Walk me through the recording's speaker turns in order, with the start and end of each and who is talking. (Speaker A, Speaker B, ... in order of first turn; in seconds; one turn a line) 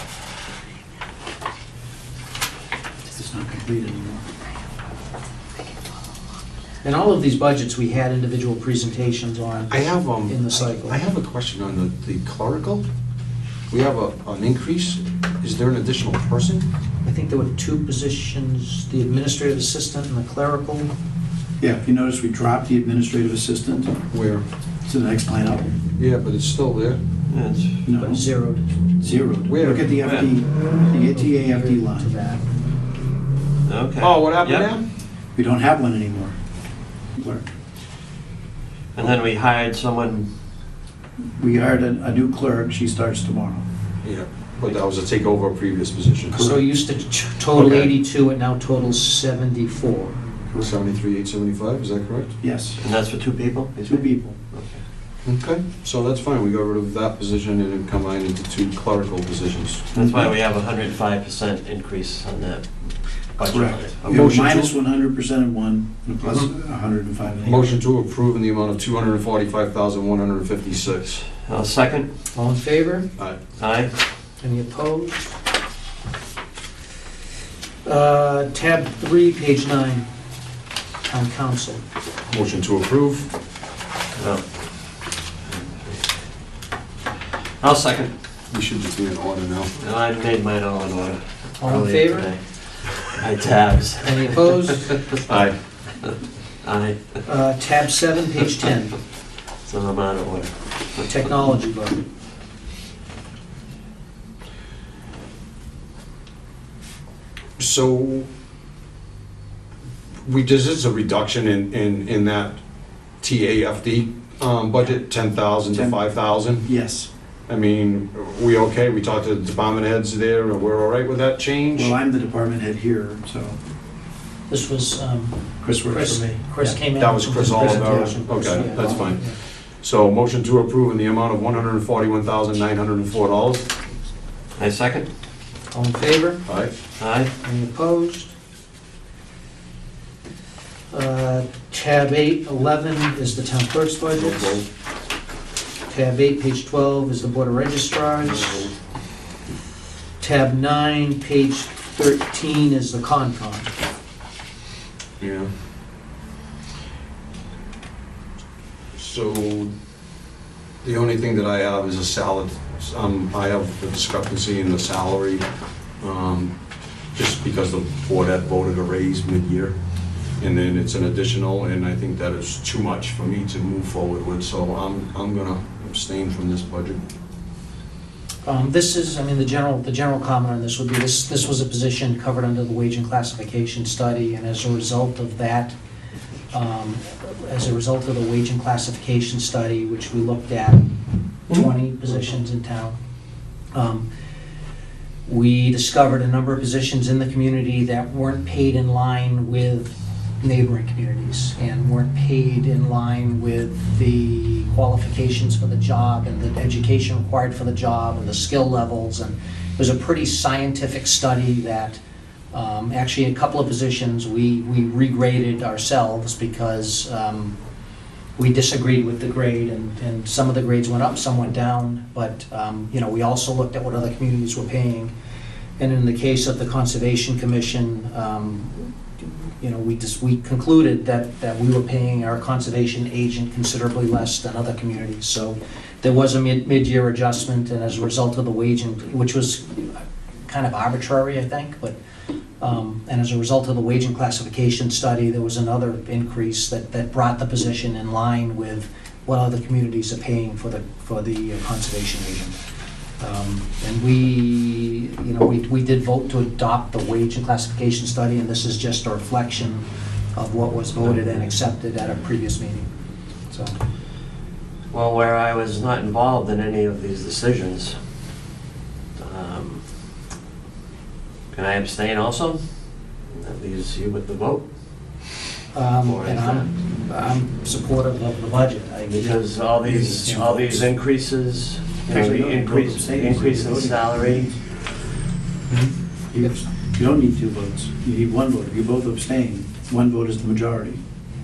Speaker A: 3.0-4.2
Speaker B: 6.8-11.0
Speaker C: 9.7-12.8
Speaker C: 13.7-16.6
Speaker B: 17.0-20.9
Speaker A: 21.6-23.9
Speaker C: 24.1-24.4
Speaker A: 24.8-25.7
Speaker C: 26.0-27.0
Speaker D: 27.3-27.8
Speaker A: 27.9-28.2
Speaker B: 28.0-28.6
Speaker A: 29.0-32.1
Speaker C: 29.5-30.0
Speaker D: 30.0-30.3
Speaker B: 31.1-32.4
Speaker D: 33.6-34.7
Speaker C: 34.0-34.8
Speaker A: 35.3-36.4
Speaker A: 37.2-37.5
Speaker D: 38.9-40.3
Speaker A: 41.4-43.6
Speaker C: 44.0-46.5
Speaker A: 46.3-46.6
Speaker B: 46.4-50.2
Speaker C: 50.6-52.4
Speaker A: 52.4-52.8
Speaker D: 52.8-54.8
Speaker A: 53.8-54.4
Speaker C: 55.2-59.9
Speaker D: 59.9-64.4
Speaker A: 59.9-60.3
Speaker A: 63.4-67.7
Speaker C: 64.1-64.7
Speaker C: 67.4-71.2
Speaker D: 71.4-72.1
Speaker B: 72.3-73.1
Speaker D: 73.6-73.9
Speaker B: 74.4-75.3
Speaker B: 77.8-80.1
Speaker B: 81.0-81.8
Speaker C: 82.3-83.3
Speaker D: 84.2-84.9
Speaker D: 85.5-86.0
Speaker D: 87.6-88.1
Speaker C: 88.5-89.7
Speaker D: 89.8-94.5
Speaker B: 91.6-92.3
Speaker B: 94.0-95.0
Speaker C: 95.1-95.5
Speaker D: 96.6-97.2
Speaker B: 97.2-99.0
Speaker D: 99.6-100.5
Speaker B: 101.0-102.0
Speaker C: 107.6-108.3
Speaker C: 110.2-112.6
Speaker C: 113.2-116.7
Speaker A: 115.7-116.0
Speaker A: 116.6-117.1
Speaker C: 117.5-122.0
Speaker A: 121.7-123.6
Speaker B: 124.5-129.4
Speaker A: 125.6-126.8
Speaker C: 127.0-133.7
Speaker A: 127.3-129.1
Speaker D: 134.6-135.1
Speaker B: 135.7-136.4
Speaker C: 136.4-136.7
Speaker D: 137.0-137.3
Speaker B: 137.4-138.3
Speaker B: 140.9-144.6
Speaker C: 144.1-144.7
Speaker B: 145.9-148.7
Speaker C: 148.3-148.7
Speaker B: 150.2-153.7
Speaker C: 155.2-155.5
Speaker C: 158.9-159.7
Speaker C: 160.8-165.4
Speaker C: 166.0-166.5
Speaker C: 167.2-169.7
Speaker C: 170.4-177.0
Speaker B: 178.4-185.7
Speaker B: 186.5-190.8
Speaker B: 191.5-192.9
Speaker B: 193.7-194.1
Speaker B: 195.2-212.0
Speaker B: 212.5-217.5
Speaker B: 218.3-225.1
Speaker B: 225.8-241.9
Speaker B: 242.6-252.6
Speaker B: 253.2-262.9
Speaker B: 263.5-263.7
Speaker D: 264.9-268.0
Speaker D: 269.2-269.9
Speaker D: 271.5-272.6
Speaker D: 273.3-274.6
Speaker B: 275.7-280.9
Speaker D: 276.0-276.7
Speaker D: 279.1-284.5
Speaker A: 282.1-284.6
Speaker B: 285.7-286.5
Speaker A: 286.3-291.0